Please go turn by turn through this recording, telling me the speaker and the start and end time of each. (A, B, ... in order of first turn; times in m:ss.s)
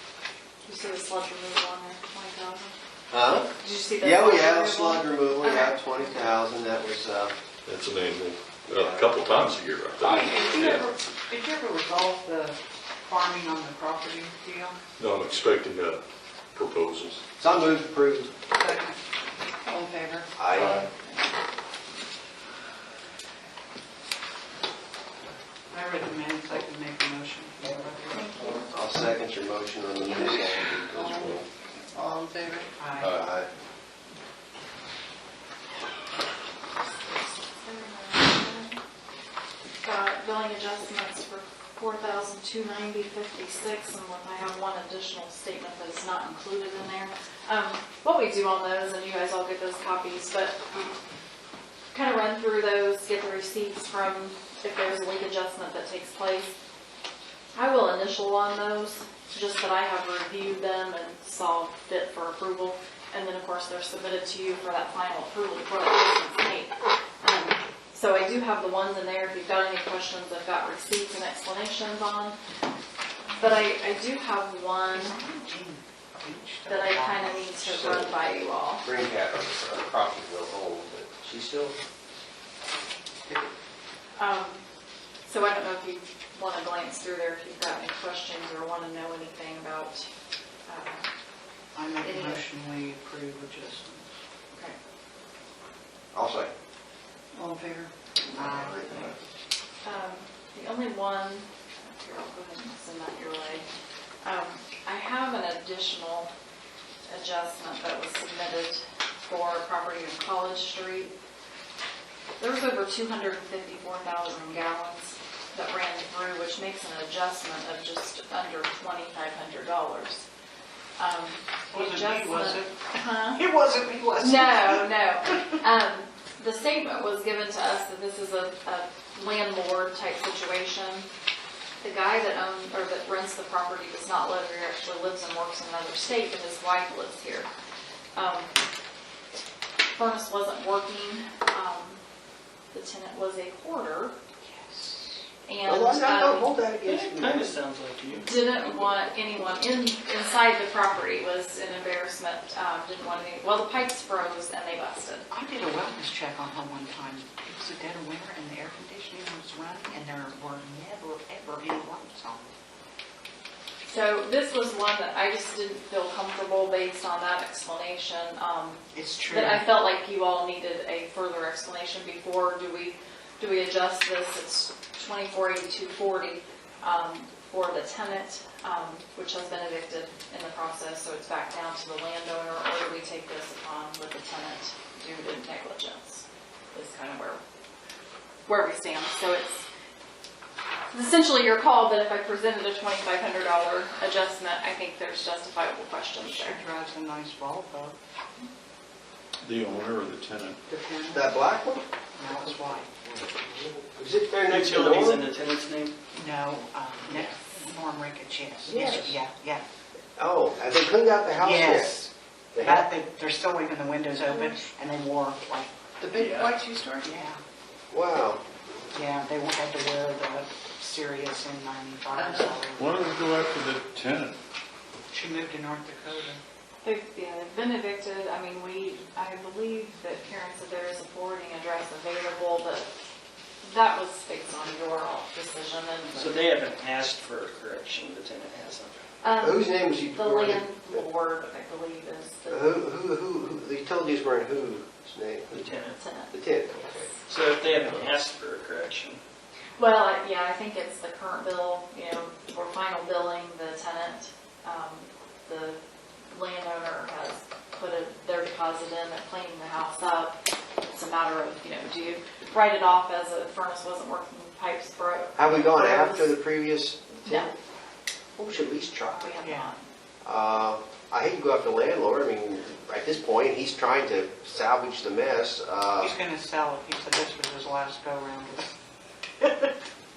0:00.6-0:02.7 A
0:03.1-0:07.3 B
0:03.6-0:06.3 A
0:07.6-0:10.8 C
0:08.7-0:09.5 B
0:10.0-0:14.8 D
0:15.0-0:17.2 C
0:17.4-0:18.3 B
0:18.5-0:19.0 D
0:19.6-0:20.8 D
0:20.4-0:20.9 B
0:20.6-0:20.8 C
0:25.7-0:28.4 D
0:28.1-0:28.8 A
0:28.7-0:31.4 B
0:32.8-0:33.2 D
0:33.0-0:33.5 B
0:37.1-0:38.8 A
0:39.8-0:50.6 A
0:51.9-0:56.5 A
0:57.5-1:12.4 A
1:13.3-1:13.7 D
1:13.4-1:15.2 A
1:14.9-1:17.7 D
1:16.7-1:18.8 A
1:17.6-1:18.2 B
1:18.8-1:21.7 B
1:24.2-1:24.6 A
1:25.2-1:30.1 A
1:30.7-1:31.1 A
1:31.7-1:34.0 D
1:32.0-1:32.4 A
1:34.5-1:34.8 A
1:36.1-1:36.5 B
1:38.3-1:39.1 B
1:38.3-1:38.8 D
1:39.8-1:43.7 A
1:44.2-1:46.3 A
1:47.1-1:51.1 A
1:52.4-2:00.2 A
2:01.0-2:03.4 A
2:01.7-2:05.6 D
2:04.2-2:11.1 A
2:11.8-2:17.5 A
2:18.1-2:18.5 A
2:19.9-2:22.0 A
2:22.7-2:24.1 A
2:24.4-2:25.2 D
2:25.4-2:26.5 A
2:25.6-2:27.5 B
2:26.8-2:28.6 E
2:28.2-2:35.3 A
2:35.3-2:42.5 D
2:43.9-3:07.4 A
2:48.9-2:49.7 D
3:08.5-3:09.6 A
3:10.9-3:16.6 A
3:16.2-3:18.0 D
3:19.4-3:20.6 C
3:19.5-3:20.4 F
3:20.7-3:21.3 D
3:21.1-3:25.2 B
3:22.2-3:22.9 D
3:24.5-3:25.9 E
3:26.1-3:29.6 D
3:28.6-3:29.2 B
3:30.2-3:32.9 B
3:31.4-3:35.7 D
3:34.3-3:34.6 A
3:36.1-3:36.6 E
3:37.0-3:37.4 D
3:37.9-3:38.4 B
3:38.9-3:43.1 D
3:42.8-3:44.4 F
3:45.1-3:46.4 D
3:46.8-3:52.9 A
3:53.6-3:56.3 A
3:56.1-3:59.0 E
3:59.2-4:02.8 A
3:59.4-4:01.0 B
4:02.5-4:05.7 B
4:05.5-4:06.0 E
4:06.0-4:06.3 A
4:06.3-4:07.1 B
4:07.3-4:09.2 E
4:09.8-4:15.8 A
4:16.3-4:20.4 A
4:20.9-4:26.4 A
4:25.4-4:27.5 B
4:27.2-4:27.5 A
4:28.4-4:29.4 B
4:29.1-4:29.9 A
4:29.4-4:29.7 D
4:30.2-4:36.1 B
4:36.0-4:38.8 D
4:39.4-4:39.7 D